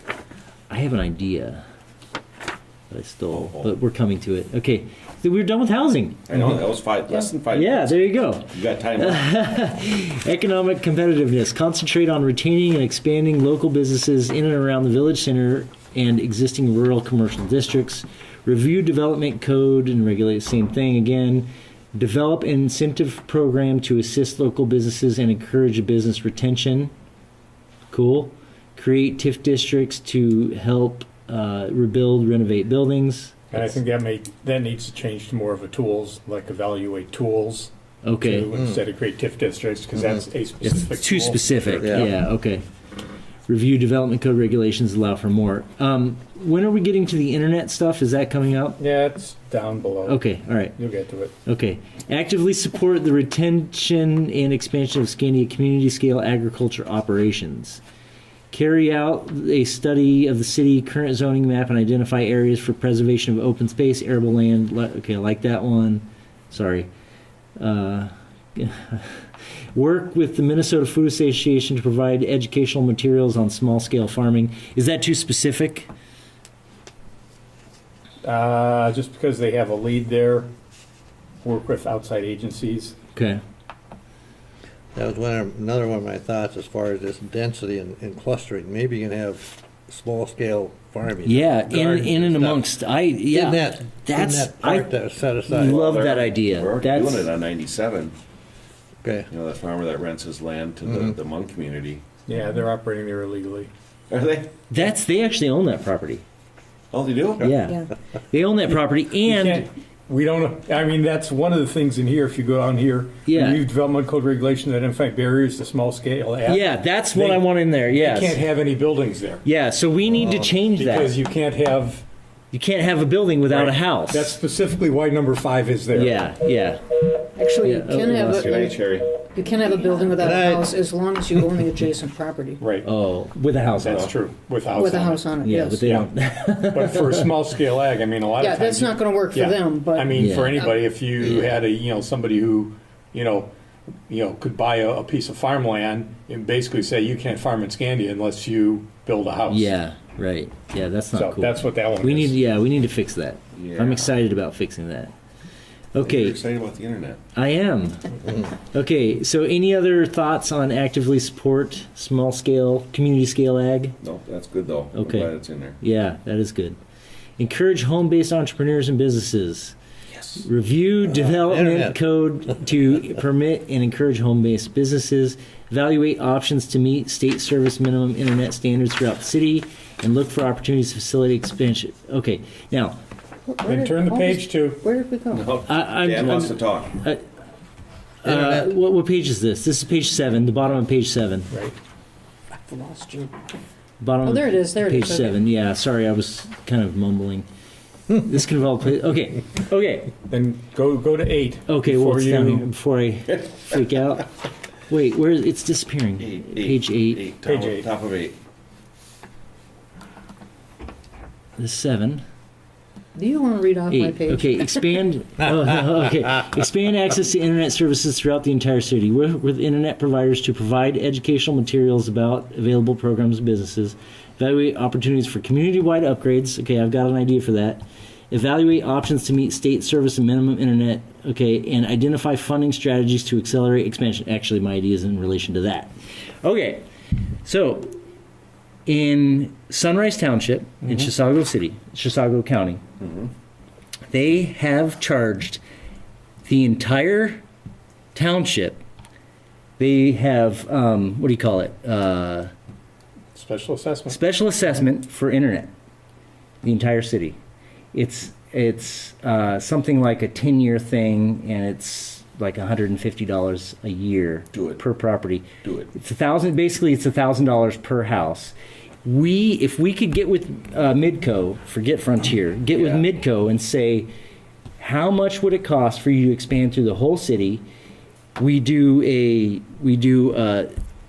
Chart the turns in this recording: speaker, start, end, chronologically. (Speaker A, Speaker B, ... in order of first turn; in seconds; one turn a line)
Speaker A: 0.7-1.6
Speaker A: 2.9-6.3
Speaker B: 3.3-3.7
Speaker B: 6.3-8.0
Speaker C: 6.3-6.6
Speaker A: 7.5-26.9
Speaker B: 8.5-9.2
Speaker A: 27.9-33.8
Speaker C: 33.5-42.1
Speaker A: 38.0-38.5
Speaker A: 40.6-42.6
Speaker D: 41.8-42.1
Speaker A: 43.5-48.8
Speaker C: 48.8-51.3
Speaker A: 50.1-50.8
Speaker A: 51.5-57.8
Speaker A: 58.5-66.9
Speaker A: 67.6-75.9
Speaker C: 78.2-80.5
Speaker C: 81.4-83.0
Speaker A: 83.2-83.4
Speaker D: 84.9-96.0
Speaker A: 91.2-94.9
Speaker A: 95.5-97.3
Speaker B: 95.7-98.1
Speaker D: 99.0-99.3
Speaker B: 99.3-102.0
Speaker D: 100.9-101.1
Speaker C: 102.3-103.7
Speaker B: 104.1-104.5
Speaker A: 104.7-106.2
Speaker B: 106.9-107.5
Speaker A: 107.4-109.7
Speaker E: 107.6-107.9
Speaker C: 109.2-119.4
Speaker A: 113.3-113.6
Speaker A: 116.4-118.4
Speaker A: 119.4-121.2
Speaker C: 120.2-122.1
Speaker A: 122.5-124.3
Speaker C: 123.5-126.2
Speaker A: 125.9-128.5
Speaker E: 127.4-132.6
Speaker B: 128.4-129.1
Speaker D: 130.2-130.7
Speaker C: 132.6-132.9
Speaker A: 132.8-134.1
Speaker C: 133.7-135.3
Speaker E: 134.7-135.9
Speaker A: 135.4-137.2
Speaker C: 135.8-136.1
Speaker C: 136.6-143.5
Speaker E: 138.4-140.7
Speaker A: 140.2-140.6
Speaker C: 144.1-149.7
Speaker A: 149.5-155.1
Speaker C: 151.1-152.4
Speaker B: 153.6-154.2
Speaker A: 155.9-156.4
Speaker B: 156.0-157.2
Speaker A: 157.3-164.0
Speaker B: 164.0-165.8
Speaker A: 164.9-166.8
Speaker A: 167.4-169.8
Speaker A: 170.4-183.0
Speaker D: 171.0-172.0
Speaker E: 183.5-185.6
Speaker C: 183.7-184.8
Speaker B: 185.3-186.9
Speaker A: 185.7-187.2
Speaker A: 188.2-191.5
Speaker D: 188.2-188.6
Speaker C: 191.5-191.8
Speaker E: 192.5-193.4
Speaker A: 194.0-197.5
Speaker E: 194.2-195.4
Speaker A: 198.1-200.1
Speaker C: 200.2-202.7
Speaker A: 201.7-204.3
Speaker A: 204.9-207.3
Speaker B: 206.2-208.4
Speaker C: 207.4-207.9
Speaker A: 211.6-212.2
Speaker E: 213.2-215.0
Speaker A: 213.9-235.9
Speaker A: 236.4-236.8
Speaker A: 237.4-237.9
Speaker A: 238.9-242.8
Speaker B: 243.0-243.3
Speaker A: 244.1-245.6
Speaker A: 246.4-247.4
Speaker A: 248.2-248.8
Speaker A: 249.8-252.5
Speaker C: 253.3-254.2
Speaker A: 254.1-255.7
Speaker A: 256.6-257.4
Speaker A: 257.9-274.1
Speaker B: 264.5-264.8
Speaker B: 265.6-265.9
Speaker B: 272.7-273.1
Speaker A: 274.8-277.6
Speaker A: 278.4-280.7